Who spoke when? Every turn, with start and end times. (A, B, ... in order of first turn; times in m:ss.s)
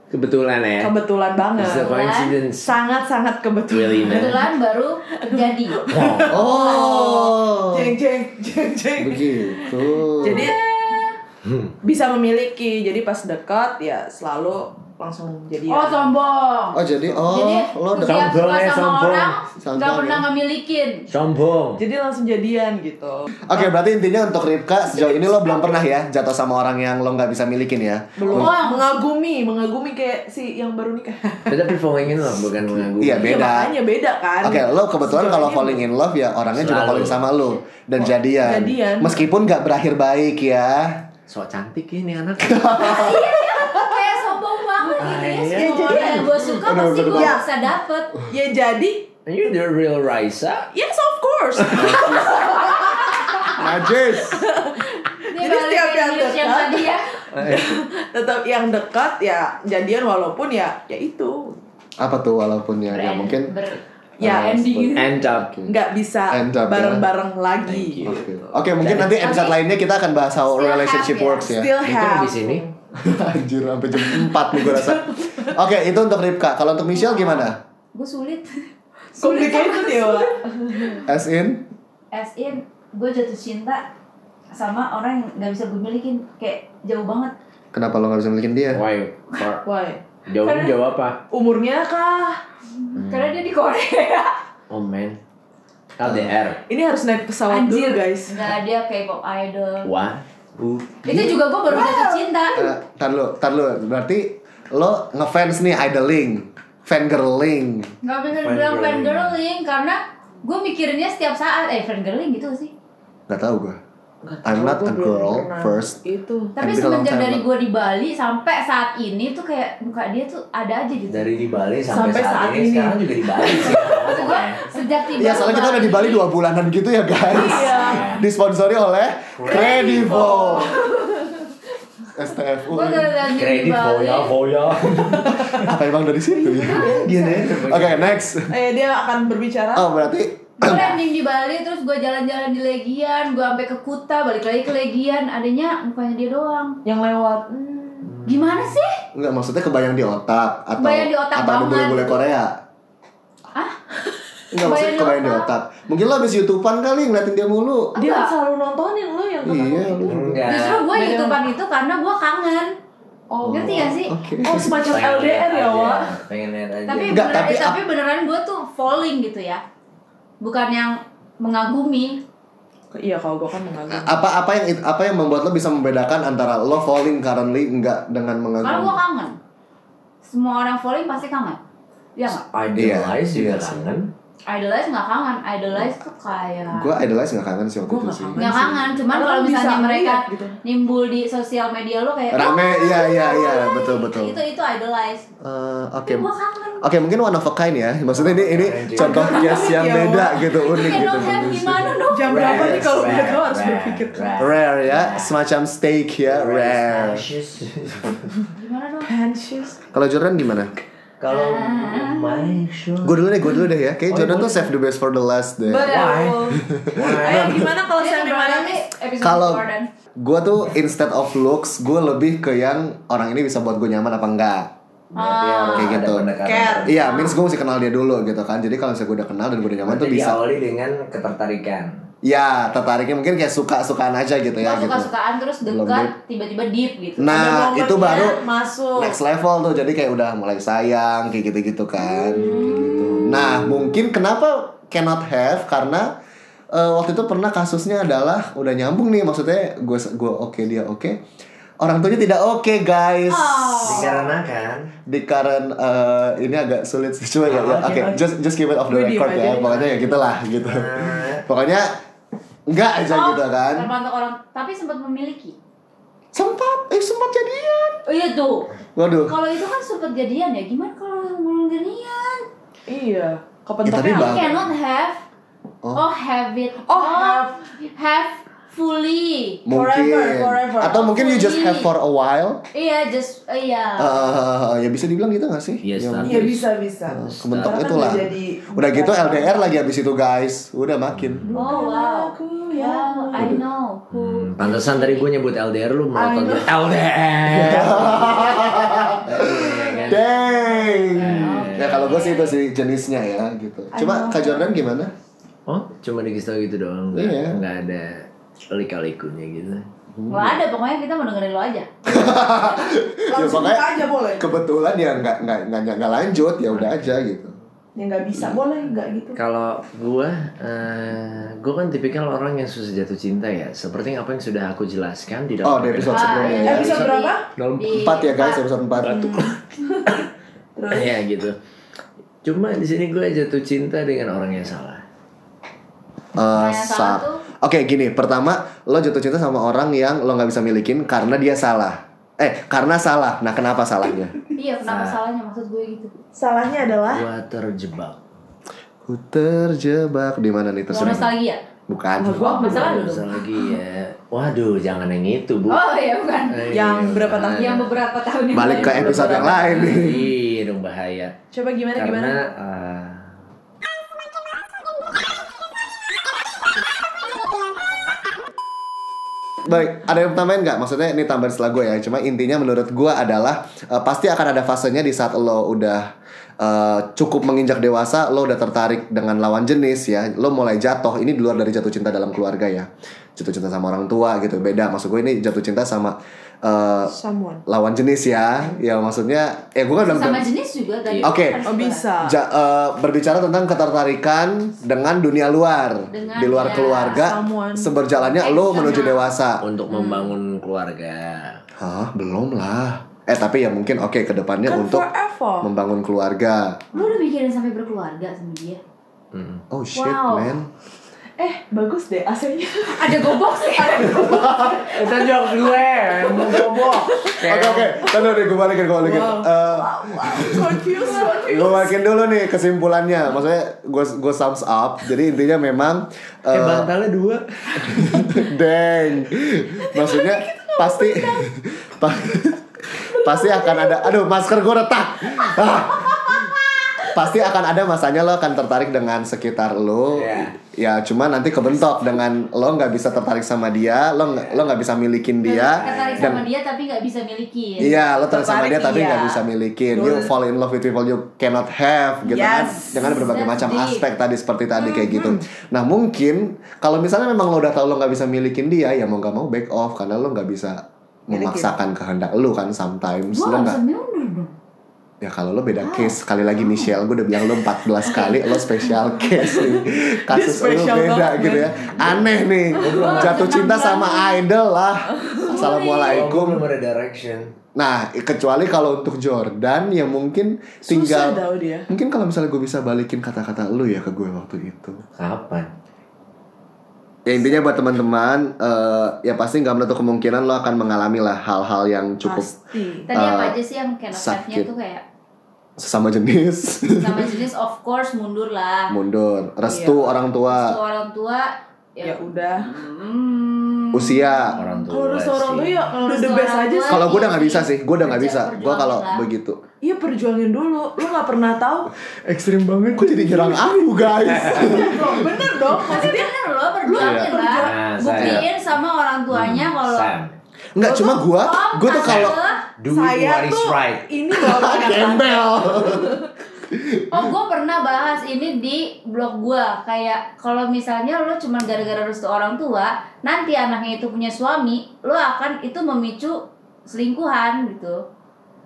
0:00.1-0:00.9 A
0:00.8-0:01.9 B
0:01.6-0:02.7 A
0:01.6-0:02.4 C
0:02.6-0:04.5 B
0:03.7-0:04.4 A
0:04.1-0:05.8 C
0:05.2-0:10.6 B
0:05.9-0:06.4 A
0:06.3-0:08.0 D
0:09.0-0:10.5 D
0:10.3-0:11.2 C
0:11.4-0:11.7 A
0:11.8-0:16.1 B
0:15.7-0:21.1 C
0:16.7-0:18.3 D
0:18.0-0:19.4 A
0:19.6-0:20.3 D
0:21.1-0:21.8 A
0:21.8-0:23.7 B
0:23.5-0:28.5 D
0:25.0-0:25.7 B
0:28.2-0:31.6 B
0:28.3-0:28.9 C
0:31.5-0:33.4 A
0:33.0-0:33.8 D
0:33.2-0:35.9 B
0:34.4-0:41.0 D
0:36.5-0:37.2 A
0:38.4-0:39.2 B
0:41.3-0:42.8 A
0:42.4-0:43.2 D
0:42.8-0:48.1 C
0:43.8-0:44.1 B
0:45.0-0:46.2 A
0:45.4-0:46.4 B
0:46.4-0:47.4 D
0:47.1-0:47.4 B
0:48.3-0:49.1 B
0:49.3-0:50.7 A
0:50.7-1:01.6 B
0:51.6-0:52.0 A
0:51.8-0:52.4 D
0:52.6-0:53.5 C
0:53.6-0:54.4 D
0:55.3-0:57.2 C
0:57.4-0:57.6 A
1:02.0-1:03.5 D
1:02.9-1:05.2 C
1:04.2-1:05.0 B
1:04.6-1:05.7 D
1:05.0-1:05.5 A
1:05.7-1:08.6 B
1:06.3-1:07.0 D
1:07.6-1:08.2 A
1:08.0-1:11.7 D
1:08.8-1:09.2 A
1:09.2-1:09.6 C
1:10.5-1:11.5 C
1:11.4-1:12.8 B
1:11.8-1:12.6 A
1:13.0-1:17.6 D
1:14.0-1:15.6 B
1:17.0-1:21.0 C
1:19.2-1:21.0 B
1:21.0-1:21.7 D
1:22.1-1:23.9 C
1:24.5-1:27.3 C
1:27.7-1:28.8 D
1:28.7-1:29.6 A
1:29.6-1:30.0 B
1:30.3-1:31.2 A
1:30.4-1:30.8 C
1:31.3-1:32.4 B
1:32.9-1:34.4 C
1:33.0-1:33.4 A
1:34.7-1:35.2 A
1:36.0-1:36.6 A
1:36.0-1:36.3 D
1:36.7-1:38.4 B
1:37.5-1:39.9 C
1:39.8-1:41.0 A
1:41.0-1:42.7 C
1:41.1-1:41.4 D
1:41.7-1:42.3 B
1:42.6-1:47.9 D
1:48.0-1:52.7 C
1:48.4-1:49.4 A
1:53.3-1:53.8 D
1:54.2-1:56.5 B
1:54.4-1:56.0 D
1:56.6-2:01.3 C
1:56.6-1:57.4 D
2:01.1-2:04.6 A
2:01.9-2:03.8 B
2:03.8-2:06.2 C
2:05.2-2:10.8 D
2:07.2-2:08.2 B
2:07.6-2:08.0 C
2:07.7-2:08.2 A
2:09.4-2:10.6 A
2:09.5-2:11.3 C
2:12.2-2:13.3 D
2:12.7-2:14.3 C
2:13.3-2:15.7 A
2:14.9-2:18.6 D
2:16.3-2:17.5 B
2:16.6-2:18.3 A
2:18.5-2:20.0 B
2:19.8-2:21.0 D
2:20.6-2:26.8 C
2:26.8-2:28.2 B
2:28.2-2:29.0 C
2:29.1-2:32.6 D
2:30.8-2:32.2 C
2:34.5-2:37.9 D
2:34.6-2:35.5 C
2:38.0-2:38.3 C
2:38.0-2:41.4 B
2:39.4-2:40.4 D
2:40.1-2:40.9 A
2:40.4-2:42.7 C
2:43.3-2:43.9 B
2:43.4-2:44.8 D
2:43.5-2:44.1 C
2:44.4-2:46.1 B
2:44.8-2:47.5 A
2:46.9-2:49.6 C
2:47.1-2:47.8 D
2:50.4-2:52.2 C
2:52.9-2:54.2 B
2:53.9-2:59.0 D
2:58.6-2:59.4 C
3:00.2-3:01.6 C
3:02.2-3:02.4 C
3:02.3-3:04.1 A
3:02.8-3:03.8 D
3:04.5-3:06.9 C
3:06.7-3:08.6 D
3:07.8-3:09.0 A
3:08.4-3:10.5 B
3:08.4-3:15.3 C
3:12.3-3:14.4 D
3:15.4-3:16.3 D
3:16.0-3:16.9 C
3:16.8-3:21.9 D
3:18.1-3:19.4 A
3:18.9-3:21.1 B
3:20.5-3:22.7 C
3:22.1-3:24.5 B
3:22.2-3:25.4 A
3:22.8-3:23.3 D
3:24.4-3:27.2 D
3:26.3-3:28.3 A
3:28.6-3:29.1 C
3:29.0-3:29.8 B
3:29.9-3:30.8 D
3:31.2-3:33.3 A
3:31.3-3:32.6 C
3:33.0-3:36.0 D
3:34.1-3:34.7 A
3:35.7-3:36.4 C
3:35.8-3:36.4 B
3:35.8-3:37.7 A
3:36.5-3:37.6 D
3:37.2-3:38.8 B
3:38.0-3:39.9 C
3:39.2-3:39.7 D
3:40.2-3:44.7 D
3:45.1-3:47.2 A
3:45.2-3:46.0 C
3:45.7-3:46.3 D
3:46.4-3:47.3 B
3:46.9-3:50.4 D
3:47.1-3:47.4 C
3:49.8-3:51.9 A
3:52.2-3:55.1 D
3:54.6-3:57.4 C
3:55.6-3:56.1 D
3:57.2-3:58.4 D
3:57.3-3:59.2 B
3:59.0-4:06.1 D
4:02.1-4:03.7 C
4:06.7-4:11.2 D
4:11.8-4:14.0 D
4:13.3-4:14.3 C
4:13.8-4:14.9 A
4:15.1-4:21.9 D
4:17.4-4:18.0 A
4:17.9-4:18.2 B
4:18.9-4:20.2 B
4:20.5-4:21.4 A
4:22.7-4:23.9 D
4:23.1-4:25.6 C
4:26.3-4:28.0 D
4:28.1-4:28.7 C
4:29.0-4:29.4 D
4:29.3-4:32.5 C
4:32.9-4:34.5 B
4:33.8-4:34.6 D
4:34.1-4:35.2 C
4:35.9-4:39.6 C
4:36.8-4:37.6 B
4:39.7-4:42.6 D
4:39.7-4:41.1 B
4:41.1-4:41.9 C
4:42.7-4:44.4 C
4:44.0-4:46.6 D
4:45.8-4:46.6 A
4:46.2-4:49.7 B
4:47.1-4:51.5 D
4:47.3-4:47.9 A
4:51.1-4:51.6 A
4:51.5-4:53.5 B
4:51.5-4:55.3 C
4:53.4-4:53.6 D
4:54.1-4:58.6 A
4:56.1-4:56.8 B
4:57.5-5:05.1 D
4:58.6-5:02.6 C
4:59.3-5:00.2 A
5:01.2-5:02.3 A
5:04.0-5:04.7 C
5:05.7-5:09.9 A
5:07.1-5:07.6 D
5:10.2-5:10.6 D
5:10.3-5:12.8 C
5:12.1-5:17.6 D
5:13.3-5:14.5 B
5:16.7-5:17.1 A
5:18.0-5:19.4 B
5:19.4-5:28.0 A
5:25.6-5:27.0 D
5:26.1-5:28.6 C
5:26.6-5:27.5 B
5:27.9-5:29.6 D
5:29.0-5:29.5 A
5:30.8-5:31.2 B
5:30.9-5:31.6 A
5:32.4-5:35.0 A
5:36.4-5:44.4 D
5:36.5-5:37.4 C
5:44.6-5:46.1 C
5:44.9-5:45.2 A
5:46.4-5:47.3 B
5:47.0-5:48.2 A
5:49.0-5:51.3 D
5:50.9-5:51.6 C
5:51.9-5:52.6 D
5:52.2-5:53.1 B
5:52.4-5:55.8 A
5:52.5-5:53.4 C
5:55.7-5:56.7 C
5:56.5-5:57.8 A
5:56.7-5:58.0 B
5:57.6-5:59.9 C
5:58.5-6:00.3 D
5:58.6-6:01.4 A
6:01.5-6:02.5 B
6:01.9-6:03.3 A
6:09.6-6:27.1 D
6:27.1-6:27.6 B
6:27.7-6:30.5 D
6:30.0-6:32.1 C
6:31.2-6:31.6 D
6:31.6-6:32.4 B
6:32.2-6:39.6 D
6:36.1-6:37.2 C
6:37.1-6:38.0 B
6:38.4-6:39.3 C
6:39.6-6:41.6 A
6:39.9-6:40.3 C
6:41.8-6:45.1 D
6:44.6-6:45.7 B
6:45.6-6:46.8 D
6:46.9-6:48.8 C
6:49.3-6:49.6 A
6:49.7-6:50.7 D
6:49.9-6:50.6 B
6:51.4-6:55.0 B
6:52.9-6:54.8 C
6:54.3-6:54.8 D
6:54.8-6:57.9 A
6:57.4-7:00.8 D
6:58.0-7:02.0 B
7:01.0-7:01.3 C
7:01.4-7:06.9 D
7:06.5-7:08.2 A
7:07.9-7:16.5 D
7:09.8-7:11.4 B
7:13.0-7:14.1 B
7:17.1-7:26.4 D
7:20.1-7:20.6 A
7:25.4-7:28.0 C
7:25.8-7:26.4 A
7:27.8-7:43.8 D
7:27.8-7:30.3 B
7:32.2-7:33.1 B
7:32.9-7:34.0 C
7:34.8-7:35.4 B
7:41.3-7:41.8 B
7:43.3-7:44.5 C
7:45.2-7:56.7 D
7:45.8-7:46.2 C
7:48.2-7:48.7 B
7:49.3-7:52.1 B
7:51.9-7:53.6 A
7:52.8-7:54.4 C
7:55.4-7:56.3 C
7:56.0-7:57.5 A
7:57.8-8:05.0 D
8:00.8-8:01.9 B
8:05.2-8:05.7 A
8:07.2-8:12.5 D
8:12.2-8:13.1 B
8:13.1-8:15.0 C
8:13.1-8:13.6 D
8:14.1-8:14.7 D
8:15.8-8:17.3 D
8:17.0-8:19.0 C
8:18.9-8:20.8 D
8:19.6-8:20.2 B
8:20.5-8:24.4 C
8:22.0-8:22.7 B
8:23.9-8:24.6 D
8:24.5-8:25.8 A
8:24.9-8:27.0 B
8:25.9-8:29.2 C
8:26.9-8:29.6 D
8:29.8-8:31.9 B
8:32.2-8:36.1 D
8:33.0-8:33.8 B
8:34.1-8:34.8 A
8:34.4-8:37.8 B
8:35.7-8:40.1 C
8:36.9-8:37.4 D
8:37.6-8:38.4 A
8:38.2-8:38.4 D
8:39.3-8:40.4 A
8:40.8-8:42.4 D
8:40.8-8:42.6 C
8:42.0-8:44.1 A
8:42.9-8:46.3 B
8:44.3-8:46.2 D
8:46.7-8:47.2 D
8:47.1-8:58.0 C